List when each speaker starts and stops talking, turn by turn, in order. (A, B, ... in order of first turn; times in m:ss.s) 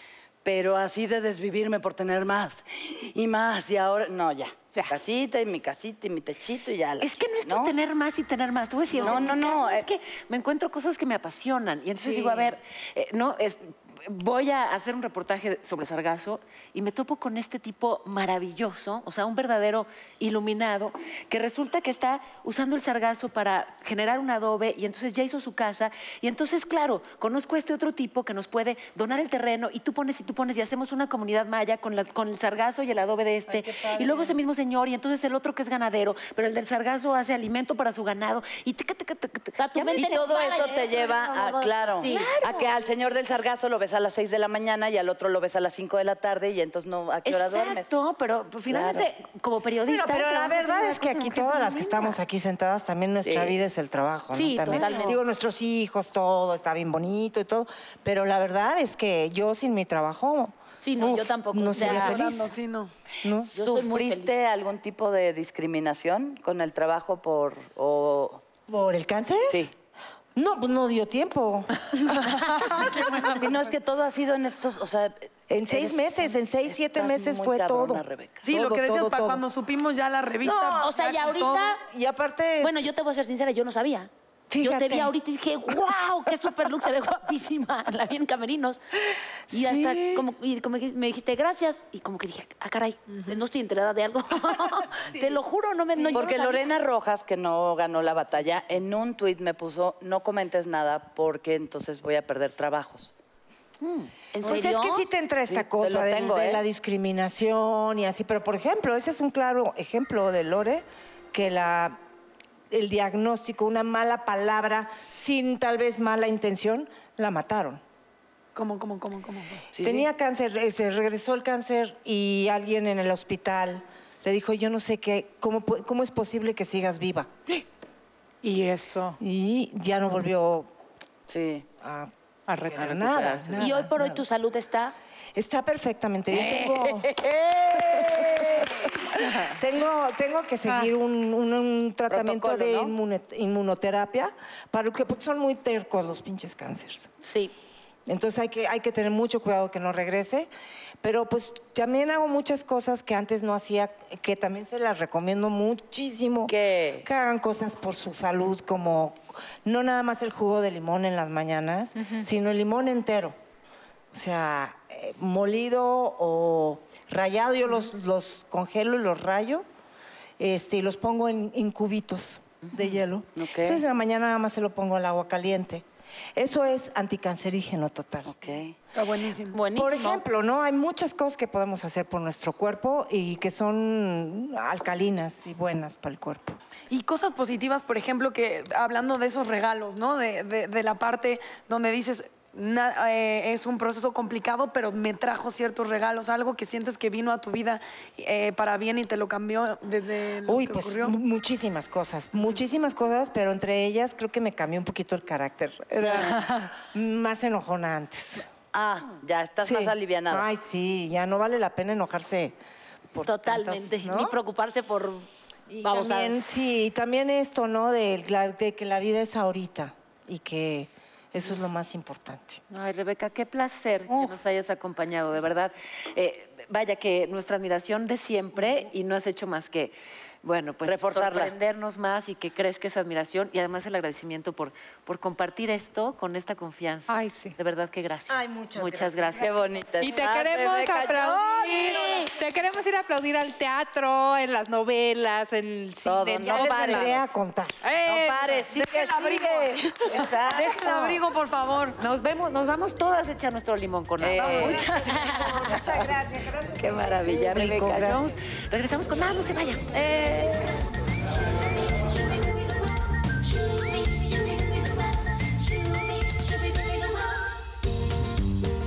0:00.4-0:07.7 A
0:07.0-0:41.2 B
0:09.0-0:09.9 A
0:12.0-0:12.5 C
0:33.5-0:34.4 C
0:39.6-0:42.4 D
0:40.0-0:47.8 A
0:41.9-0:43.0 B
0:47.2-0:52.2 B
0:48.7-0:49.1 A
0:49.9-1:00.6 C
0:53.2-0:53.6 A
0:54.3-0:55.2 D
1:00.8-1:02.2 D
1:01.5-1:02.5 C
1:01.8-1:02.9 E
1:03.2-1:03.5 C
1:03.5-1:04.3 D
1:03.5-1:08.4 A
1:08.7-1:09.6 C
1:10.4-1:13.1 C
1:12.5-1:16.1 A
1:15.5-1:19.4 C
1:16.7-1:18.5 A
1:18.4-1:21.8 E
1:20.4-1:21.0 C
1:20.8-1:21.8 D
1:21.8-1:22.9 C
1:22.6-1:24.1 D
1:24.5-1:25.1 C
1:24.6-1:28.8 D
1:29.5-1:30.3 C
1:29.5-1:36.7 D
1:33.1-1:33.4 E
1:36.1-1:43.1 A
1:43.8-1:44.1 B
1:44.3-1:45.1 D
1:44.4-1:52.0 C
1:45.5-1:46.6 A
1:52.7-1:57.8 C
1:58.6-1:59.6 E
1:59.7-2:00.1 A
1:59.8-2:07.3 C
2:08.4-2:09.2 F
2:09.2-2:10.7 C
2:11.3-2:11.7 A
2:11.8-2:14.2 C
2:12.5-2:13.6 F
2:13.6-2:15.0 D
2:15.4-2:27.1 C
2:16.4-2:16.8 A
2:22.1-2:22.9 A
2:27.2-2:27.5 D
2:28.1-2:30.5 C
2:31.0-2:43.4 C
2:36.5-2:37.1 A
2:44.1-2:49.6 C
2:50.4-2:58.3 C
2:53.4-2:53.8 A
2:58.3-2:58.8 A
2:58.9-2:59.6 E
2:59.5-3:00.2 D
2:59.8-3:06.6 C
3:06.9-3:21.2 E
3:20.5-3:28.5 C
3:26.3-3:26.6 F
3:28.7-3:30.5 A
3:29.6-3:32.6 C
3:33.1-3:34.4 C
3:33.2-3:35.3 D
3:35.7-3:42.6 C
3:35.8-3:36.4 D
3:42.7-3:59.5 B
3:50.8-3:51.5 A
3:57.1-3:57.6 F
3:58.3-4:00.0 C
3:59.4-4:02.3 A
4:00.0-4:07.2 F
4:01.8-4:02.3 D
4:06.0-4:07.2 A
4:06.4-4:07.8 C
4:07.8-4:09.7 F
4:08.0-4:10.3 A
4:09.2-4:12.0 E
4:10.2-4:10.8 B
4:12.0-4:14.9 B
4:14.2-4:15.8 A
4:14.4-4:18.3 C
4:14.4-4:14.8 E
4:16.8-4:20.6 B